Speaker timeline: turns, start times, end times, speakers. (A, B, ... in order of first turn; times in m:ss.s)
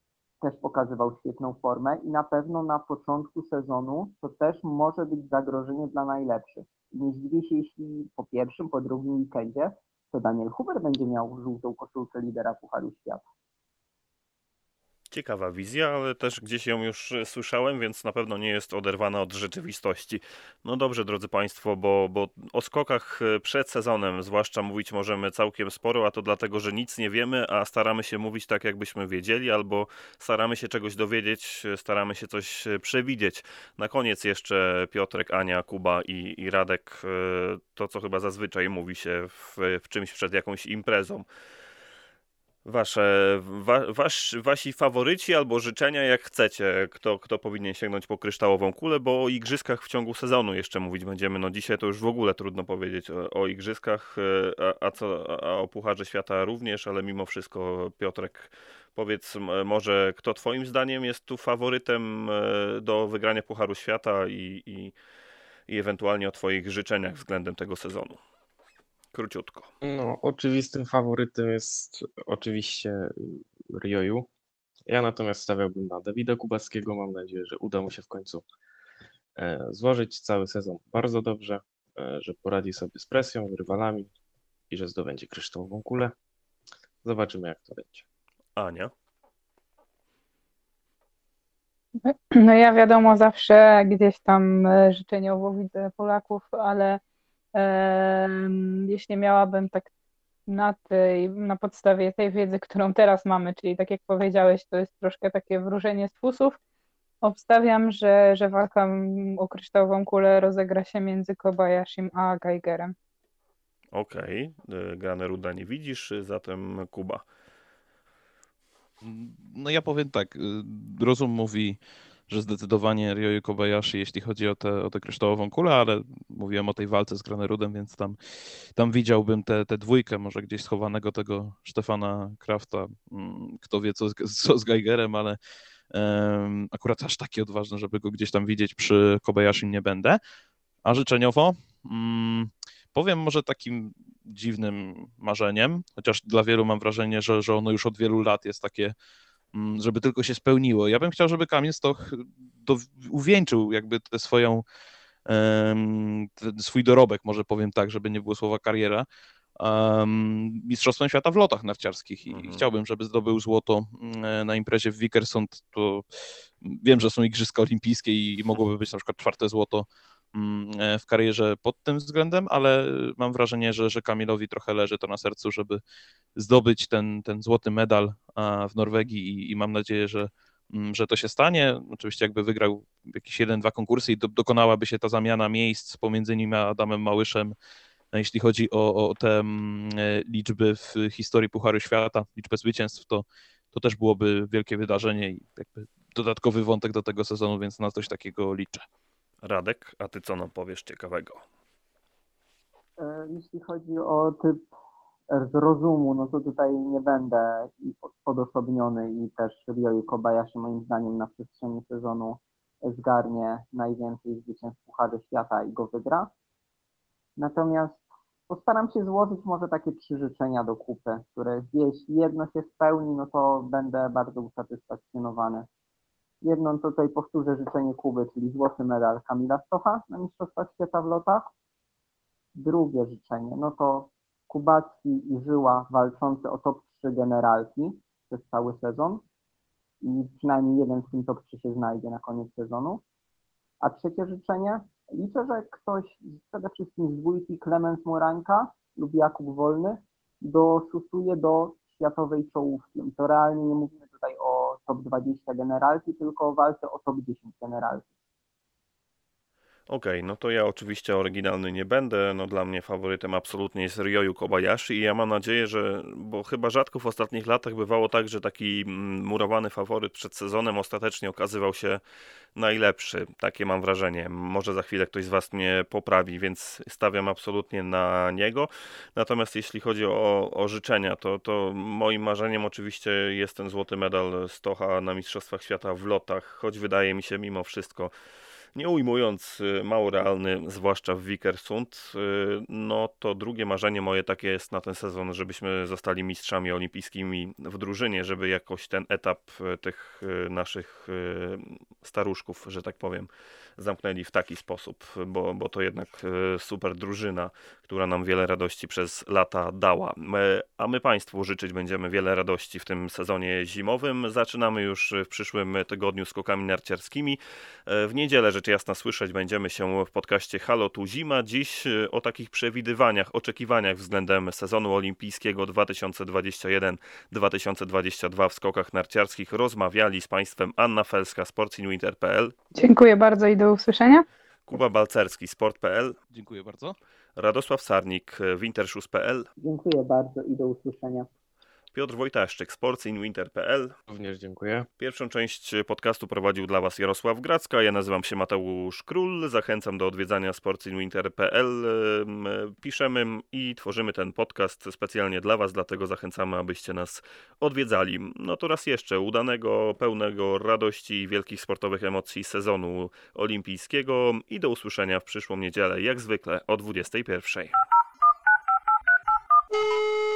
0:00.4-0:13.2 A
0:15.1-0:41.2 B
0:42.6-1:04.9 B
1:05.7-1:08.2 B
1:09.1-1:09.7 B
1:09.8-1:14.3 C
1:14.9-1:18.4 C
1:19.4-1:24.1 C
1:24.7-1:26.1 C
1:27.0-1:28.0 C
1:28.6-1:28.9 B
1:32.0-1:37.0 D
1:37.5-1:39.9 D
1:40.5-1:46.6 D
1:47.2-1:52.9 D
1:53.9-1:57.2 B
1:59.0-2:08.2 E
2:08.7-2:15.4 E
2:15.9-2:20.2 E
2:20.8-2:28.9 E
2:29.5-2:34.6 E
2:35.3-2:39.0 E
2:39.6-2:46.0 E
2:42.3-2:42.6 B
2:46.6-2:55.8 E
2:56.4-3:07.5 E
3:08.1-3:18.8 E
3:19.4-3:21.4 B
3:23.0-3:24.7 A
3:25.3-3:36.3 A
3:37.4-3:45.7 A
3:46.4-3:51.5 A
3:52.5-3:59.2 A
4:00.0-4:03.0 A
4:03.8-4:18.1 A
4:19.9-4:32.0 B
4:32.6-4:48.1 B
4:48.7-5:32.5 B
5:32.7-5:34.2 D
5:34.7-5:36.2 B
5:36.3-5:37.0 E
5:37.4-5:39.5 B
5:39.6-5:41.3 A
5:41.9-5:43.9 B
5:44.1-5:44.9 C
5:45.0-6:07.7 B